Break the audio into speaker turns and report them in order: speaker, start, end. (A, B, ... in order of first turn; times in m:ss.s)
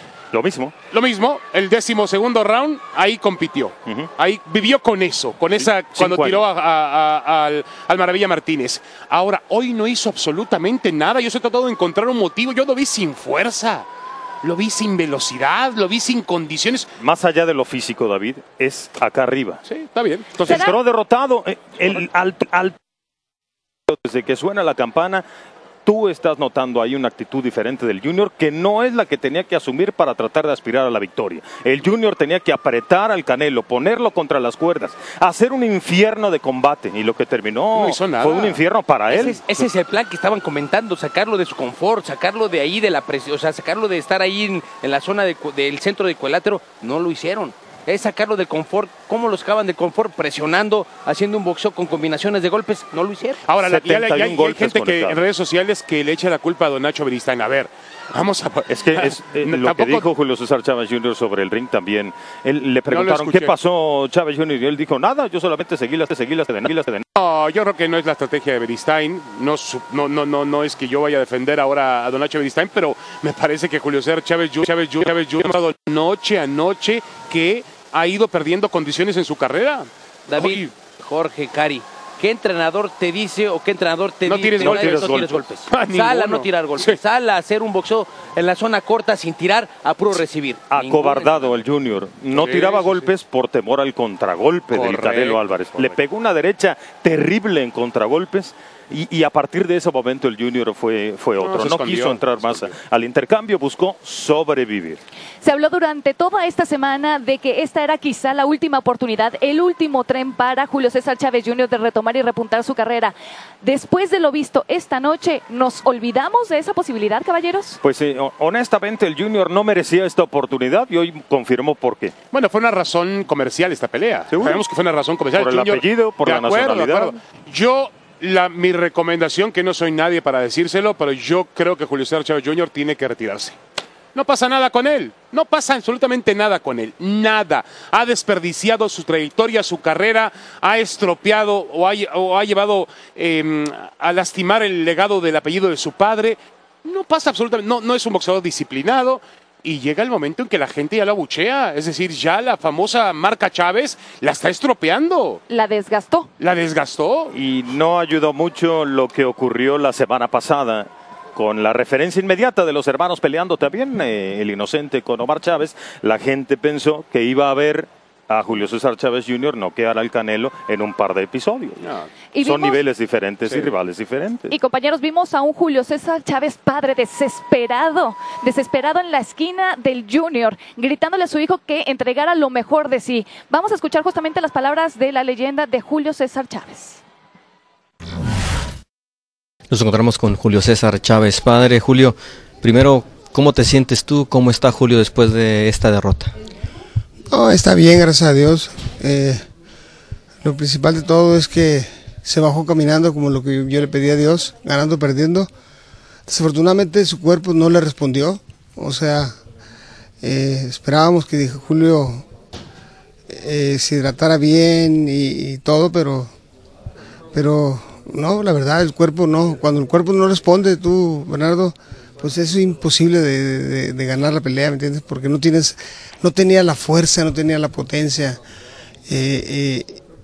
0:00.3-0:00.8 A
0:00.9-0:13.8 B
0:05.5-0:06.4 A
0:14.4-0:16.9 B
0:17.0-0:19.6 A
0:19.7-0:20.7 B
0:20.4-0:22.8 A
0:20.4-0:20.8 C
0:23.9-0:25.2 A
0:25.8-0:39.4 A
0:37.7-0:38.6 B
0:39.1-0:53.4 D
0:53.4-1:00.1 B
0:53.6-0:55.2 A
0:58.7-1:07.0 A
1:02.9-1:03.5 B
1:07.2-1:20.7 B
1:20.3-1:31.6 D
1:24.2-1:26.9 B
1:24.6-1:25.5 A
1:30.7-1:45.0 A
1:32.3-1:33.1 B
1:34.7-1:36.0 B
1:41.4-1:42.7 B
1:45.4-1:57.8 C
1:57.8-2:02.1 A
2:02.3-2:13.6 B
2:04.3-2:04.6 A
2:05.3-2:07.1 A
2:14.1-2:35.4 B
2:35.5-2:36.3 C
2:36.4-2:37.3 B
2:37.3-2:51.8 A
2:51.8-2:52.1 B
2:52.3-2:52.8 C
2:52.4-2:54.5 A
2:53.5-2:53.7 B
2:54.5-3:07.0 C
3:09.7-3:16.3 E
3:17.3-3:19.4 F
3:20.4-3:25.5 F
3:26.3-3:29.4 F
3:30.2-3:32.2 F
3:33.3-3:36.3 F
3:37.3-3:48.4 F
3:49.1-3:50.0 F